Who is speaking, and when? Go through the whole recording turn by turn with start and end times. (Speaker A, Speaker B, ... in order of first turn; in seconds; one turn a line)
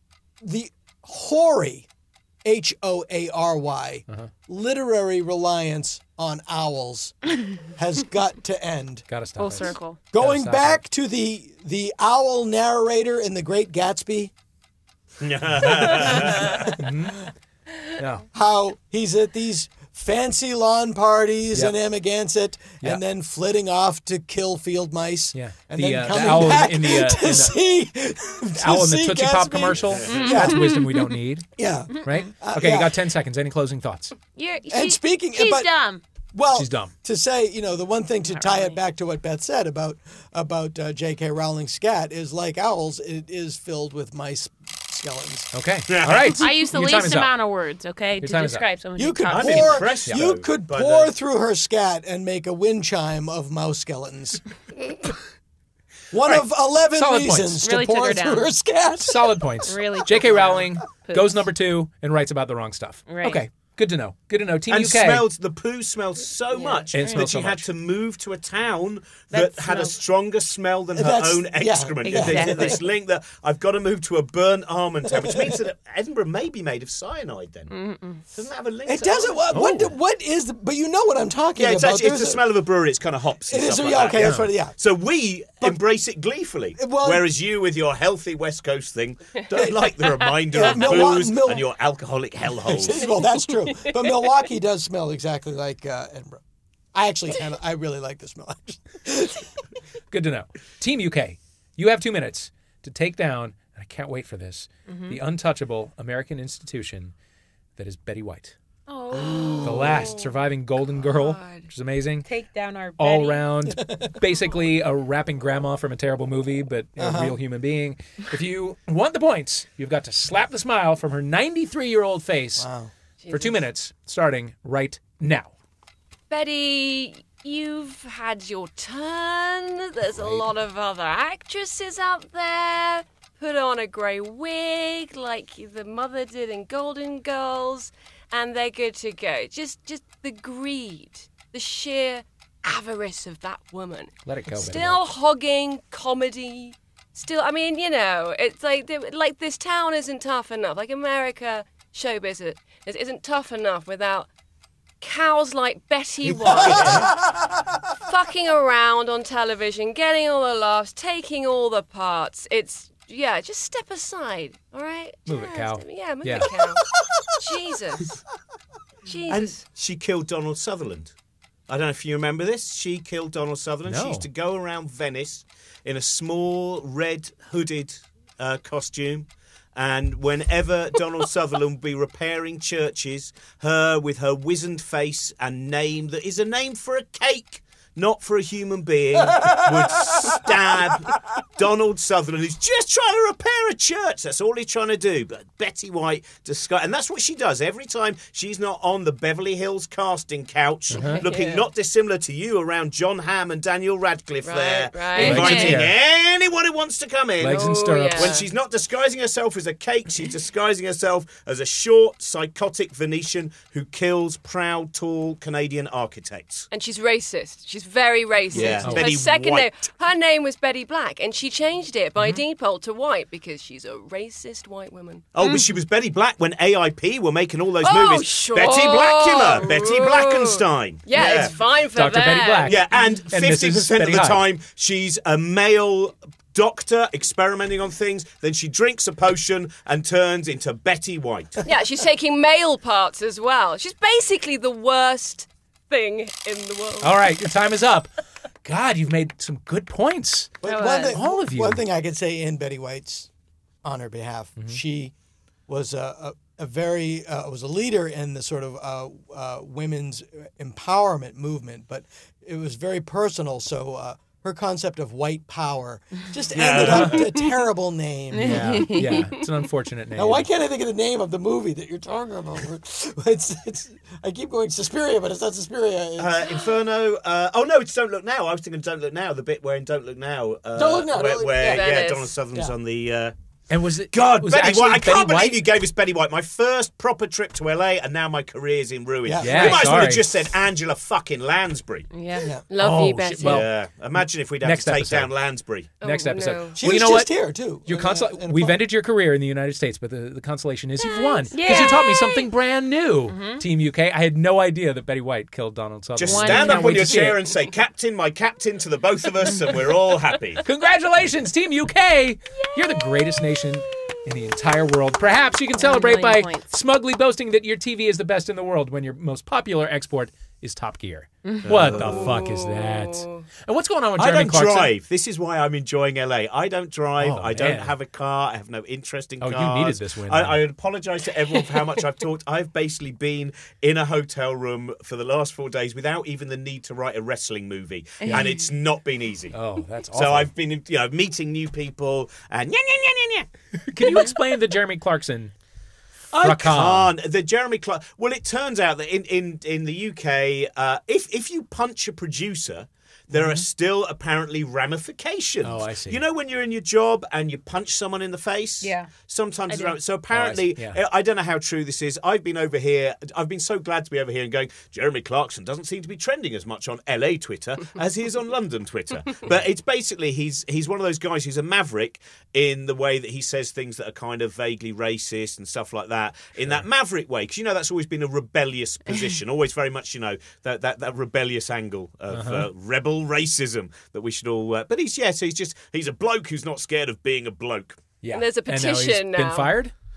Speaker A: 0.4-1.9
Speaker A: 2.4-9.1
Speaker B: 9.1-10.8
Speaker C: 9.4-10.0
Speaker A: 10.1-14.3
Speaker D: 15.2-16.7
Speaker B: 16.8-17.3
Speaker B: 18.0-18.3
Speaker A: 18.3-30.8
Speaker B: 25.3-27.6
Speaker B: 28.6-34.1
Speaker D: 29.9-30.3
Speaker C: 30.3-31.0
Speaker A: 31.6-33.0
Speaker C: 34.4-36.0
Speaker A: 34.7-35.7
Speaker A: 36.3-45.5
Speaker B: 36.5-36.9
Speaker C: 38.3-38.8
Speaker B: 45.5-47.3
Speaker D: 45.9-46.5
Speaker C: 46.4-50.0
Speaker B: 48.2-48.7
Speaker A: 49.0-55.1
Speaker D: 49.3-51.1
Speaker A: 56.1-59.5
Speaker B: 56.2-57.6
Speaker C: 57.6-58.5
Speaker B: 59.0-65.3
Speaker C: 59.7-61.5
Speaker C: 63.1-63.4
Speaker D: 64.7-77.8
Speaker C: 66.5-67.3
Speaker B: 66.9-67.7
Speaker C: 69.3-70.0
Speaker A: 71.0-72.8
Speaker C: 72.0-72.8
Speaker A: 75.1-75.6
Speaker C: 77.7-78.2
Speaker D: 78.3-79.7
Speaker A: 78.9-82.5
Speaker B: 79.5-79.9
Speaker D: 81.6-93.1
Speaker A: 83.5-84.8
Speaker B: 84.2-84.5
Speaker A: 86.8-87.3
Speaker A: 89.5-91.7
Speaker A: 92.6-96.4
Speaker A: 96.9-99.5
Speaker B: 100.1-107.1
Speaker C: 104.9-105.2
Speaker B: 107.8-108.6
Speaker C: 108.9-109.9
Speaker A: 109.2-110.0
Speaker B: 109.6-112.3
Speaker E: 109.8-110.3
Speaker E: 111.0-111.7
Speaker C: 112.3-113.5
Speaker B: 113.0-122.7
Speaker A: 117.0-117.4
Speaker A: 122.6-122.9
Speaker E: 123.2-123.6
Speaker B: 123.3-125.5
Speaker E: 126.3-154.3
Speaker B: 144.2-145.0
Speaker E: 155.0-157.2
Speaker D: 156.3-157.1
Speaker E: 158.0-168.2
Speaker B: 165.3-166.5
Speaker E: 169.1-169.6
Speaker D: 169.3-171.1
Speaker D: 171.7-216.7
Speaker B: 173.8-174.3
Speaker B: 200.9-201.2
Speaker E: 201.0-201.7
Speaker E: 204.4-205.8
Speaker C: 205.2-205.8
Speaker B: 205.2-205.9
Speaker B: 207.4-208.3
Speaker E: 207.4-208.5
Speaker E: 216.7-225.3
Speaker D: 218.5-219.7
Speaker B: 218.8-219.1
Speaker D: 225.3-231.5
Speaker E: 227.8-232.8
Speaker B: 231.9-234.4
Speaker D: 232.7-241.7
Speaker E: 241.6-247.2
Speaker B: 247.0-248.1
Speaker B: 248.7-251.8
Speaker A: 250.6-253.3
Speaker C: 250.7-251.1
Speaker A: 253.8-255.1
Speaker A: 255.7-268.9
Speaker D: 266.5-267.4
Speaker B: 266.8-267.2
Speaker C: 268.3-269.2
Speaker B: 268.4-270.5
Speaker A: 270.1-276.6
Speaker D: 276.2-283.3
Speaker A: 280.7-281.9
Speaker E: 281.5-282.4
Speaker B: 283.7-285.7
Speaker D: 284.1-292.1
Speaker A: 289.2-290.1
Speaker B: 289.4-290.3
Speaker C: 292.1-292.5
Speaker E: 292.7-293.7
Speaker B: 292.8-295.3
Speaker D: 293.4-295.9
Speaker B: 296.0-307.4
Speaker E: 296.0-296.8
Speaker A: 296.8-298.8
Speaker C: 301.0-302.5
Speaker C: 303.3-303.6
Speaker D: 306.2-310.6
Speaker C: 306.2-307.1
Speaker B: 310.6-324.9
Speaker C: 315.8-316.6
Speaker C: 321.4-321.9
Speaker D: 321.7-322.4
Speaker E: 322.0-323.4
Speaker D: 324.2-339.6
Speaker B: 327.2-327.9
Speaker B: 329.4-330.6
Speaker C: 338.2-338.5
Speaker B: 339.5-340.5
Speaker D: 340.1-343.5
Speaker B: 343.8-345.5
Speaker D: 346.3-388.0
Speaker B: 346.4-347.1
Speaker B: 353.3-353.6
Speaker B: 355.6-356.2
Speaker C: 358.8-359.1
Speaker C: 359.7-360.0
Speaker B: 360.3-361.0
Speaker B: 382.3-382.7
Speaker B: 388.2-389.9
Speaker E: 388.3-389.7